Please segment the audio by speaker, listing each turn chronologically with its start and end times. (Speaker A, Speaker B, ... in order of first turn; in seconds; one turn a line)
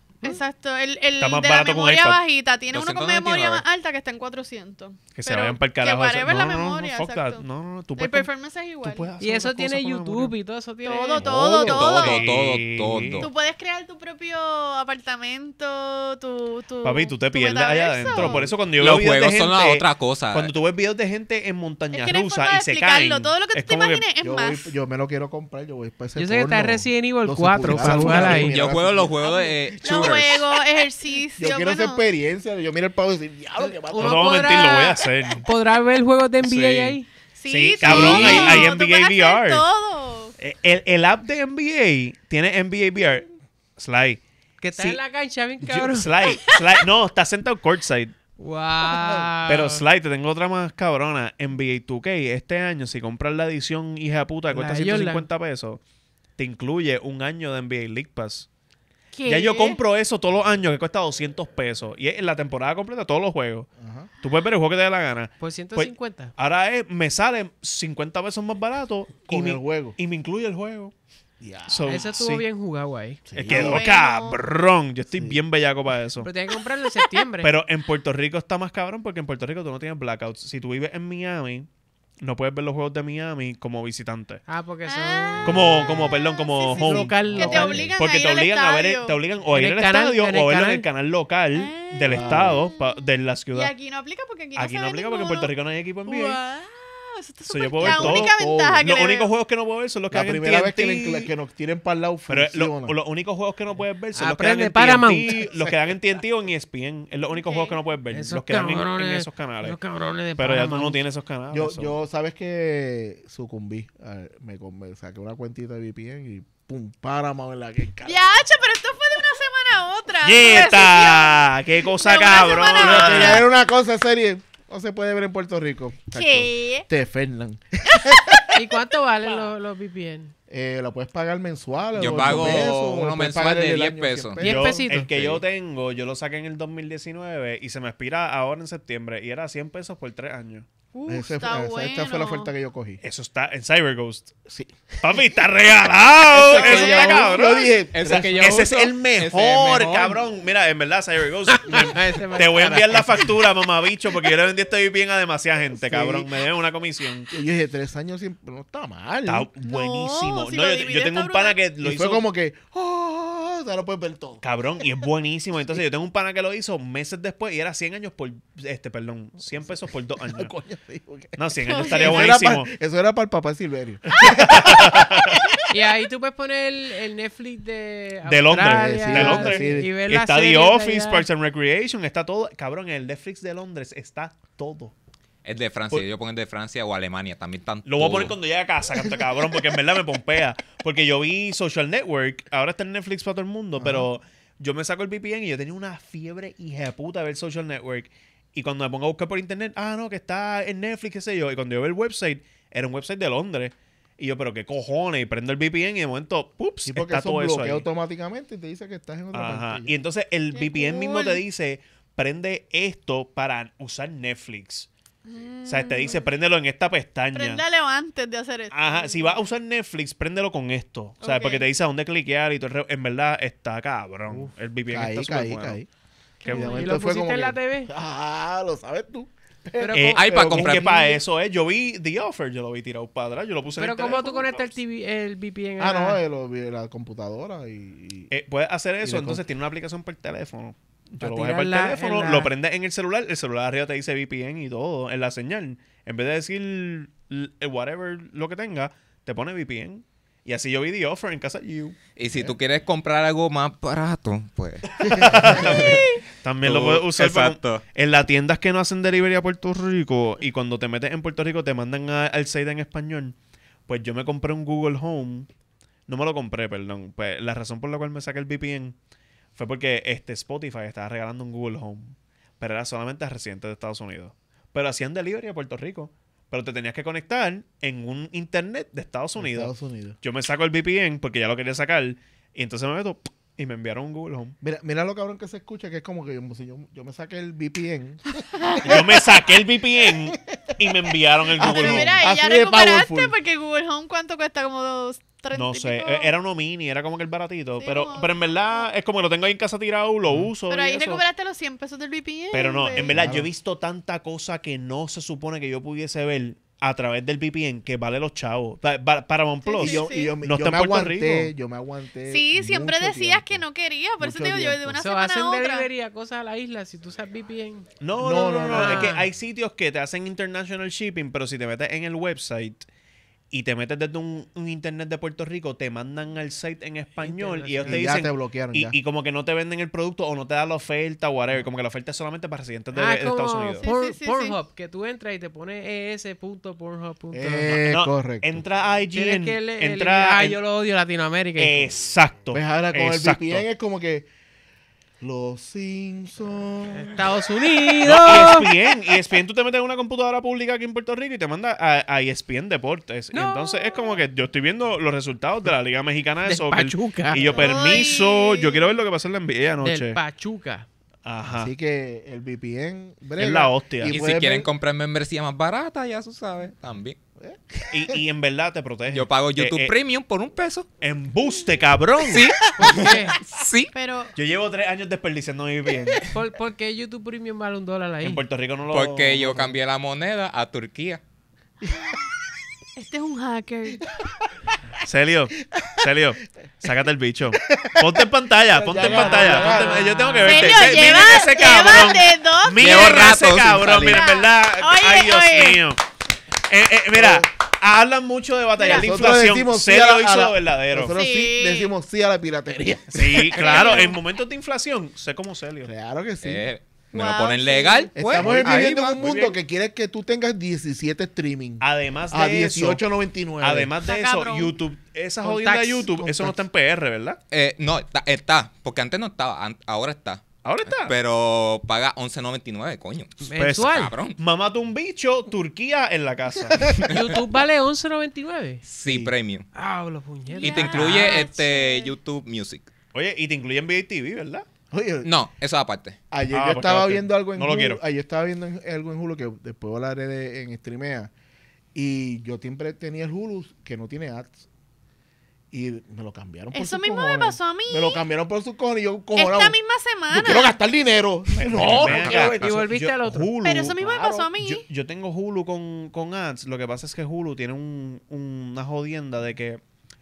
Speaker A: 0.2-7.4
Speaker B: 1.2-2.2
Speaker C: 2.7-3.6
Speaker B: 5.2-8.3
Speaker A: 8.0-9.1
Speaker B: 8.8-10.3
Speaker D: 9.2-11.3
Speaker A: 10.8-12.3
Speaker C: 11.2-13.3
Speaker B: 11.4-13.3
Speaker A: 13.2-18.5
Speaker B: 16.8-24.1
Speaker E: 18.1-18.6
Speaker C: 18.7-20.5
Speaker A: 21.9-24.7
Speaker E: 24.2-29.2
Speaker D: 26.2-28.5
Speaker B: 27.8-28.3
Speaker C: 27.9-30.6
Speaker A: 29.2-32.0
Speaker E: 31.4-34.8
Speaker D: 33.6-37.1
Speaker B: 34.0-35.5
Speaker B: 36.4-39.6
Speaker A: 37.4-40.3
Speaker E: 37.8-38.5
Speaker D: 37.9-38.7
Speaker B: 40.4-43.3
Speaker B: 43.8-44.2
Speaker D: 44.6-46.1
Speaker B: 44.7-45.0
Speaker B: 45.6-48.1
Speaker D: 48.4-49.8
Speaker E: 48.8-49.3
Speaker B: 49.5-55.8
Speaker D: 54.5-55.3
Speaker B: 56.4-58.5
Speaker D: 59.1-59.8
Speaker B: 59.3-63.7
Speaker E: 63.8-64.1
Speaker B: 64.2-70.9
Speaker D: 65.4-66.3
Speaker E: 69.3-70.0
Speaker E: 71.4-72.0
Speaker B: 71.7-72.5
Speaker D: 71.9-73.2
Speaker E: 73.3-73.8
Speaker B: 73.3-76.3
Speaker A: 73.5-74.4
Speaker E: 75.1-75.4
Speaker D: 76.2-77.5
Speaker B: 77.4-81.7
Speaker B: 82.2-84.4
Speaker D: 84.5-85.7
Speaker A: 84.8-89.2
Speaker B: 85.4-87.1
Speaker E: 85.5-86.1
Speaker E: 86.8-88.0
Speaker D: 86.8-87.9
Speaker B: 88.0-93.7
Speaker D: 89.5-90.8
Speaker A: 91.5-93.0
Speaker E: 92.1-92.6
Speaker A: 93.5-95.5
Speaker B: 94.6-96.4
Speaker A: 96.1-99.3
Speaker B: 97.5-101.3
Speaker E: 97.8-98.8
Speaker E: 100.1-103.0
Speaker B: 102.3-109.8
Speaker D: 104.2-105.3
Speaker E: 105.3-105.7
Speaker A: 107.3-107.8
Speaker D: 108.1-111.0
Speaker B: 110.4-111.9
Speaker E: 111.5-118.3
Speaker A: 118.0-123.5
Speaker B: 120.2-123.5
Speaker E: 122.8-128.4
Speaker A: 126.1-126.9
Speaker D: 128.5-130.3
Speaker E: 130.5-134.8
Speaker C: 131.9-134.4
Speaker D: 134.4-135.1
Speaker B: 134.4-140.7
Speaker C: 135.1-135.4
Speaker A: 140.9-142.5
Speaker E: 141.1-143.0
Speaker B: 143.0-144.3
Speaker E: 144.5-145.2
Speaker B: 145.0-147.7
Speaker E: 146.3-148.6
Speaker A: 146.5-147.7
Speaker C: 147.9-150.2
Speaker B: 148.4-157.3
Speaker D: 151.5-153.3
Speaker E: 155.8-156.3
Speaker E: 157.3-159.5
Speaker B: 159.3-162.2
Speaker A: 159.6-161.6
Speaker E: 161.8-164.4
Speaker B: 164.4-170.6
Speaker E: 170.3-175.3
Speaker B: 171.4-172.7
Speaker A: 171.7-172.3
Speaker B: 174.2-175.4
Speaker D: 175.7-181.2
Speaker B: 178.3-184.9
Speaker E: 178.6-179.9
Speaker C: 185.4-188.4
Speaker B: 187.8-207.8
Speaker E: 193.8-194.1
Speaker E: 206.9-209.9
Speaker B: 209.3-214.9
Speaker A: 210.5-211.4
Speaker A: 215.3-216.3
Speaker B: 215.7-217.6
Speaker A: 217.3-219.4
Speaker B: 218.7-225.8
Speaker A: 221.2-221.7
Speaker E: 224.9-225.9
Speaker D: 226.4-227.9
Speaker E: 226.5-231.2
Speaker D: 229.8-230.2
Speaker B: 229.9-234.7
Speaker C: 230.1-231.2
Speaker D: 233.8-236.2
Speaker E: 235.8-238.3
Speaker B: 238.3-252.5
Speaker E: 239.0-239.4
Speaker D: 241.2-242.5
Speaker C: 252.2-256.0
Speaker B: 255.0-263.4
Speaker A: 255.8-256.2
Speaker C: 256.6-257.8
Speaker B: 263.9-265.5
Speaker B: 266.1-268.9
Speaker B: 269.6-284.6
Speaker E: 279.4-280.2
Speaker E: 284.6-289.2
Speaker A: 288.6-289.0
Speaker B: 288.8-292.1
Speaker E: 290.3-290.7
Speaker E: 291.5-293.4
Speaker A: 291.6-296.3
Speaker B: 295.5-301.2
Speaker A: 297.8-298.9
Speaker A: 300.7-303.3
Speaker B: 302.5-311.5
Speaker E: 302.9-303.5
Speaker A: 309.6-310.3
Speaker E: 309.8-313.6
Speaker A: 312.3-315.9
Speaker E: 314.2-315.0
Speaker D: 315.0-317.9
Speaker B: 318.0-322.9
Speaker E: 318.2-319.2
Speaker D: 318.7-319.2
Speaker B: 323.5-333.9
Speaker D: 327.2-328.1
Speaker E: 327.8-328.9
Speaker D: 332.9-337.8
Speaker A: 333.8-334.6
Speaker E: 337.3-338.6
Speaker B: 337.9-340.6
Speaker D: 339.1-341.9
Speaker B: 341.6-343.6
Speaker E: 342.5-344.3
Speaker E: 345.2-347.2
Speaker D: 347.0-348.7
Speaker B: 348.1-360.2
Speaker D: 353.3-354.1
Speaker D: 356.4-357.7
Speaker A: 357.5-358.9
Speaker D: 359.8-360.9
Speaker B: 361.2-361.7
Speaker E: 361.5-364.7
Speaker B: 363.4-364.2
Speaker C: 364.1-367.2
Speaker E: 367.4-368.2
Speaker B: 367.9-369.9
Speaker C: 369.1-370.9
Speaker B: 371.0-372.7
Speaker C: 372.2-373.9
Speaker D: 372.8-373.4
Speaker A: 373.9-374.3
Speaker B: 374.4-376.3
Speaker D: 376.3-378.4
Speaker B: 378.2-379.7
Speaker C: 378.9-381.2
Speaker E: 381.8-382.1
Speaker A: 383.0-384.3
Speaker B: 385.0-396.0
Speaker E: 385.8-386.1
Speaker E: 387.7-390.2
Speaker D: 389.0-390.8
Speaker A: 390.4-393.1
Speaker C: 392.8-394.2
Speaker A: 394.1-395.8
Speaker B: 396.7-401.2
Speaker E: 397.1-397.5
Speaker A: 398.8-399.1
Speaker E: 398.8-403.8
Speaker A: 401.1-401.9
Speaker B: 403.1-405.9
Speaker A: 403.5-404.2
Speaker E: 405.8-406.6
Speaker C: 406.4-409.3
Speaker A: 407.1-408.1
Speaker E: 408.1-413.9
Speaker B: 408.3-409.6
Speaker B: 411.8-413.0
Speaker B: 413.6-417.4
Speaker A: 414.0-414.7
Speaker D: 415.4-416.1
Speaker E: 416.2-416.6
Speaker C: 417.5-424.4
Speaker B: 420.6-421.1
Speaker D: 423.4-424.1
Speaker B: 423.6-427.0
Speaker E: 426.7-427.1
Speaker D: 427.1-428.8
Speaker C: 428.8-429.7
Speaker E: 429.1-429.3
Speaker D: 429.7-431.5
Speaker A: 430.5-432.1
Speaker C: 430.6-432.9
Speaker B: 433.1-434.6
Speaker E: 434.9-435.3
Speaker C: 435.2-436.2
Speaker E: 436.3-441.3
Speaker B: 436.5-438.0
Speaker E: 441.9-444.7
Speaker E: 445.7-449.8
Speaker A: 446.7-448.2
Speaker A: 449.4-450.8
Speaker E: 450.3-452.6
Speaker B: 451.5-454.0
Speaker D: 451.9-453.5
Speaker A: 453.6-454.9
Speaker E: 454.0-454.5
Speaker B: 454.6-459.8